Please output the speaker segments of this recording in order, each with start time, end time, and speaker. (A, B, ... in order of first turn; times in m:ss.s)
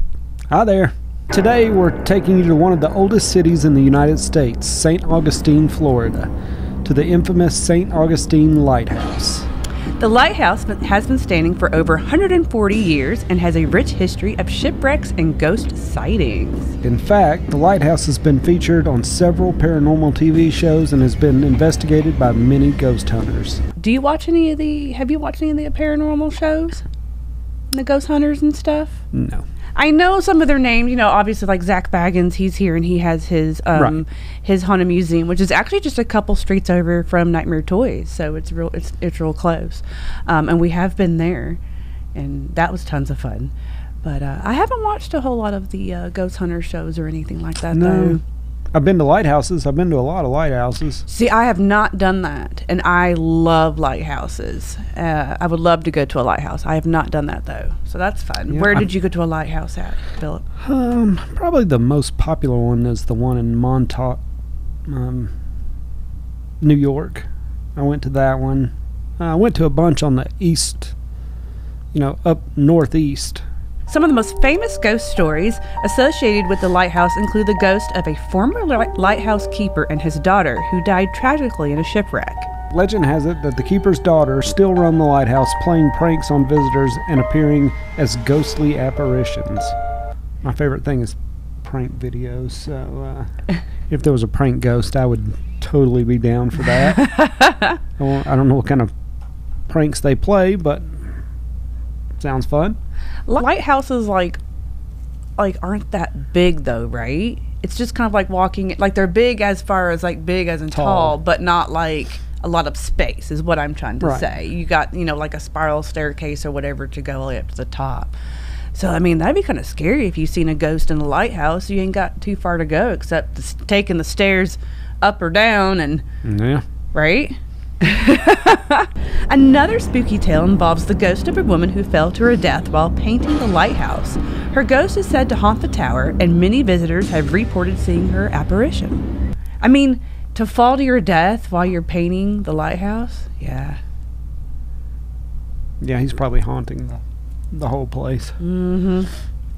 0:00.5-0:06.3 A
0:06.8-0:09.5 A
0:10.0-0:16.8 B
0:16.8-0:23.6 A
0:23.8-0:26.8 B
0:27.7-0:29.0 B
0:29.1-0:29.4 A
0:29.8-0:41.6 B
0:33.8-0:34.0 A
0:42.2-0:48.2 B
0:47.7-0:48.2 A
0:48.7-0:51.0 A
0:51.1-1:00.4 B
0:58.5-0:58.9 A
1:00.6-1:04.2 A
1:04.9-1:05.3 A
1:06.6-1:11.0 A
1:11.9-1:13.4 A
1:13.9-1:22.5 B
1:22.7-1:29.8 A
1:30.4-1:33.3 A
1:33.9-1:37.1 A
1:36.7-1:37.8 B
1:38.0-1:38.9 A
1:39.7-1:41.0 A
1:42.2-1:42.8 A
1:43.3-1:44.4 B
1:45.4-1:58.2 B
1:50.7-1:51.2 A
1:54.0-1:54.3 A
1:58.7-2:06.0 B
2:06.2-2:06.6 A
2:06.9-2:19.0 B
2:19.6-2:23.8 B
2:25.8-2:27.0 A
2:27.5-2:28.4 A
2:28.4-2:29.1 B